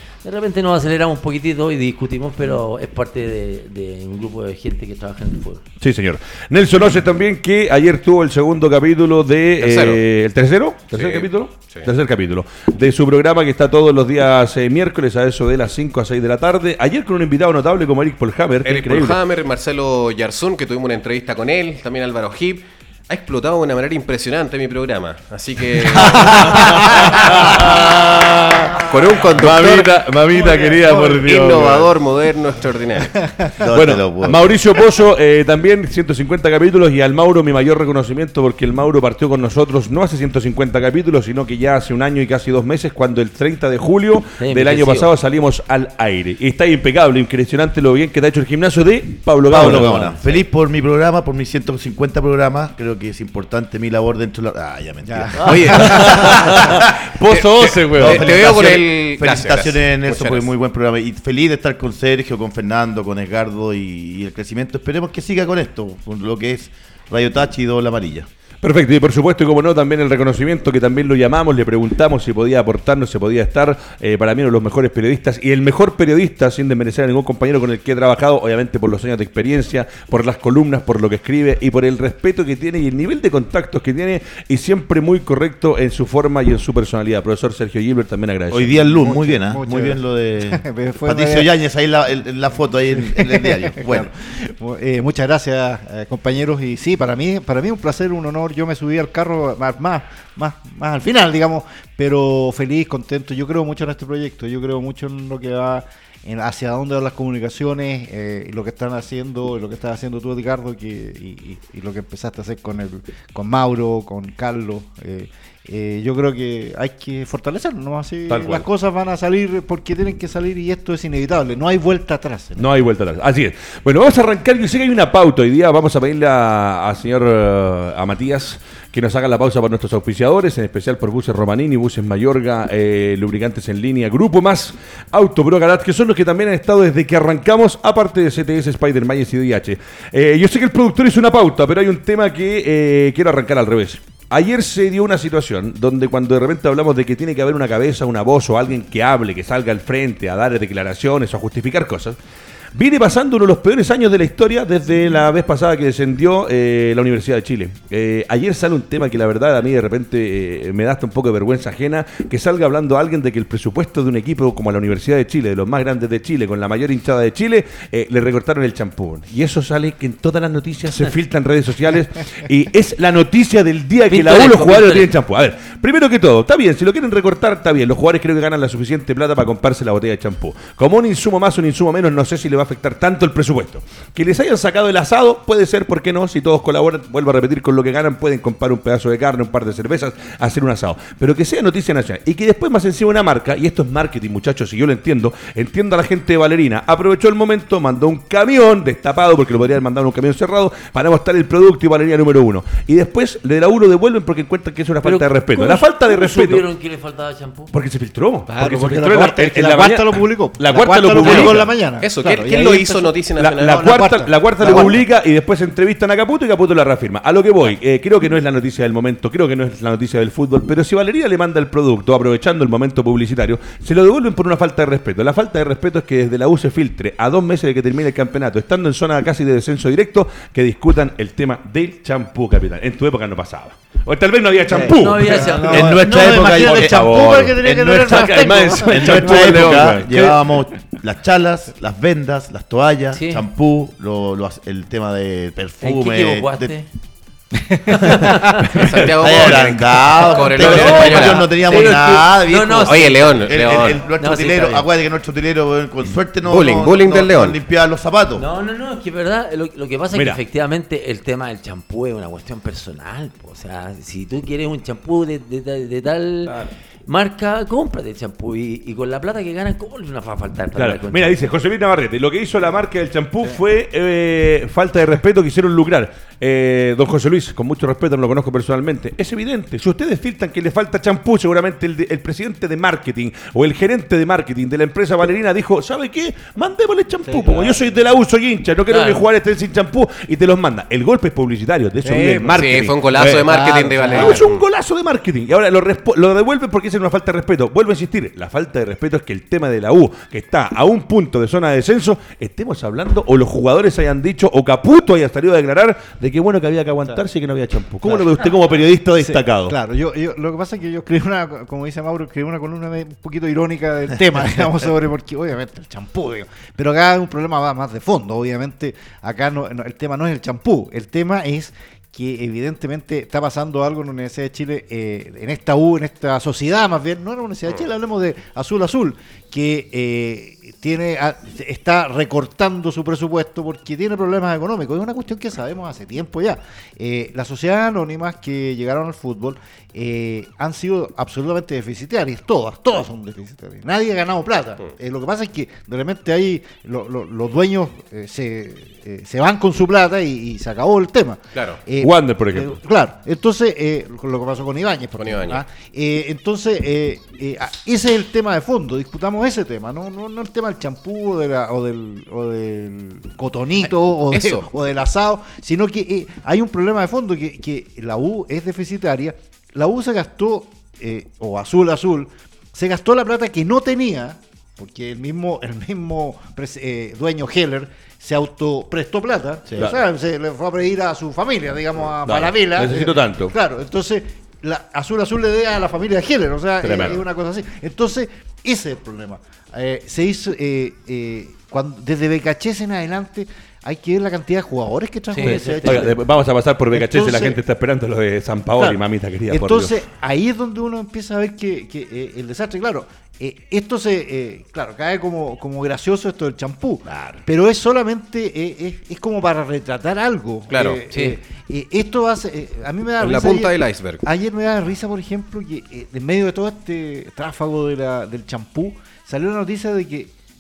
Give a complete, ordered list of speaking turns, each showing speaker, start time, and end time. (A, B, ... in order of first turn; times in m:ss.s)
0:00.2-0:05.6 A
0:05.8-0:19.2 B
0:09.6-0:10.0 C
0:10.9-0:11.9 C
0:18.6-0:30.0 C
0:26.0-0:27.0 D
0:26.5-0:31.9 B
0:30.4-0:31.2 E
0:31.0-0:33.2 C
0:33.6-0:34.6 D
0:33.7-0:50.2 B
0:44.4-0:45.1 A
0:49.5-0:57.0 D
0:55.0-0:55.9 E
0:55.4-0:58.4 B
0:55.4-0:56.4 C
0:57.2-1:00.5 C
0:57.8-1:08.3 D
1:08.6-1:29.0 B
1:28.5-1:34.1 D
1:29.0-1:31.5 E
1:32.9-2:02.7 E
1:58.3-1:58.7 B
2:02.6-2:32.2 B
2:32.7-3:26.7 B
2:54.1-2:55.1 A
3:25.0-3:27.7 A
3:27.7-3:31.7 B
3:28.5-3:35.0 E
3:31.2-3:34.0 C
3:33.4-4:00.5 B
3:54.7-4:00.0 E
3:54.8-3:56.0 A
3:55.7-4:06.7 D
4:03.1-4:03.4 A
4:05.8-4:06.9 A
4:07.6-4:08.0 E
4:07.9-4:08.9 A
4:08.7-4:11.6 C
4:09.0-4:18.4 D
4:10.5-4:14.9 A
4:12.8-4:14.0 C
4:16.5-4:17.6 C
4:18.4-4:31.4 A
4:20.1-4:20.4 B
4:26.4-4:26.7 B
4:30.8-5:09.8 B
4:47.3-4:47.8 E
4:48.9-4:49.2 A
4:52.0-4:52.7 E
4:52.5-4:54.6 C
4:53.4-4:54.5 E
5:09.2-6:36.2 E
5:51.6-5:51.8 C
5:52.0-5:52.8 B
5:55.2-5:55.6 C
6:03.8-6:04.7 C
6:19.7-6:20.0 B
6:22.2-6:23.6 B
6:26.8-6:27.2 B
6:35.3-6:36.2 A
6:35.4-6:40.0 B
6:36.9-6:37.6 E
6:38.8-7:00.3 E
6:47.1-6:47.4 B
6:50.7-6:51.0 C
6:51.1-6:51.4 A
6:53.2-6:54.2 C